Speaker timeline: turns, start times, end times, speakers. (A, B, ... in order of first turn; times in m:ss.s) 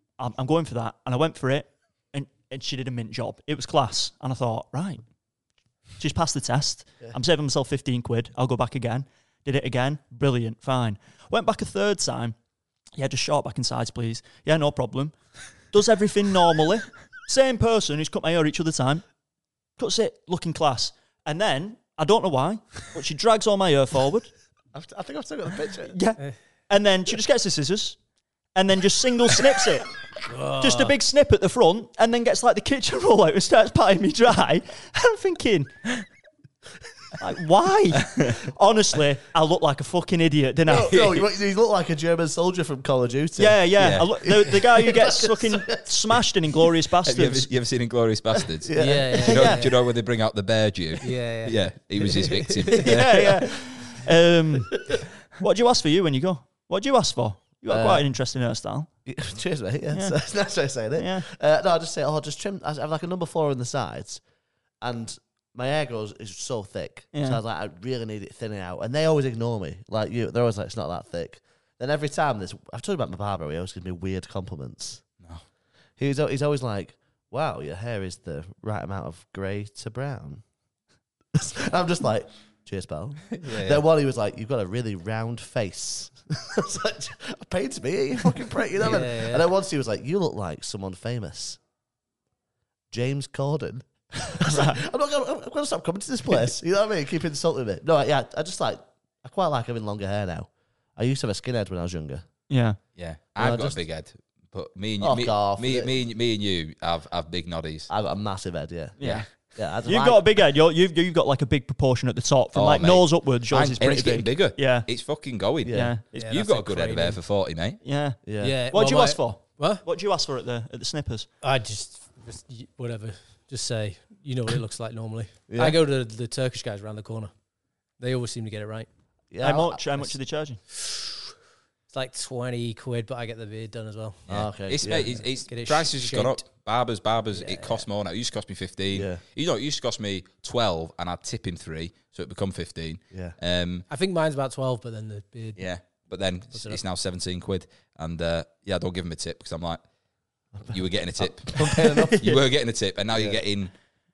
0:00.2-0:05.0 A
0:06.0-0:12.3 A
0:13.0-0:15.1 A
0:15.7-0:19.0 A
0:19.8-0:24.3 A
0:24.7-0:26.0 B
0:25.9-0:28.0 A
0:28.5-0:29.9 A
0:30.2-0:30.9 C
0:30.6-0:35.9 A
0:37.2-0:41.2 A
0:38.1-0:38.3 D
0:40.7-0:45.8 B
0:43.4-0:47.5 A
0:43.8-0:44.1 D
0:47.0-0:53.4 D
0:48.6-0:49.5 B
0:48.8-0:49.8 C
0:49.2-0:49.6 A
0:51.0-0:52.8 C
0:52.8-0:58.9 A
0:57.7-0:58.0 B
0:59.0-1:04.2 B
0:59.9-1:00.2 A
1:01.0-1:01.3 A
1:04.8-1:15.0 B
1:07.1-1:07.4 A
1:16.0-1:20.4 B
1:21.3-1:31.6 B
1:23.3-1:23.8 D
1:28.8-1:29.5 C
1:32.9-1:42.2 B
1:34.4-1:34.8 A
1:42.5-1:42.8 A
1:43.0-1:47.9 D
1:43.4-1:43.8 B
1:45.0-1:45.9 B
1:47.9-1:50.2 B
1:49.0-1:54.9 A
1:49.0-1:49.3 D
1:52.5-1:57.8 D
1:55.6-1:56.0 B
1:55.7-1:56.2 A
1:56.1-1:57.2 C
1:57.8-2:01.3 A
1:58.2-1:58.6 B
1:58.4-1:59.8 C
2:01.4-2:07.3 C
2:05.5-2:05.8 B
2:08.0-2:08.9 C
2:09.3-2:10.1 B
2:09.4-2:10.6 A
2:10.7-2:11.2 C
2:11.9-2:14.2 C
2:14.3-2:15.2 B
2:14.3-2:23.8 D
2:14.9-2:16.4 C
2:17.3-2:17.8 C
2:18.9-2:19.2 B
2:23.1-2:23.4 B
2:23.9-2:25.6 C
2:25.6-2:29.8 D
2:26.5-2:26.8 C
2:30.5-2:32.4 B
2:30.7-2:33.7 D
2:31.6-2:32.4 A
2:33.1-2:33.4 B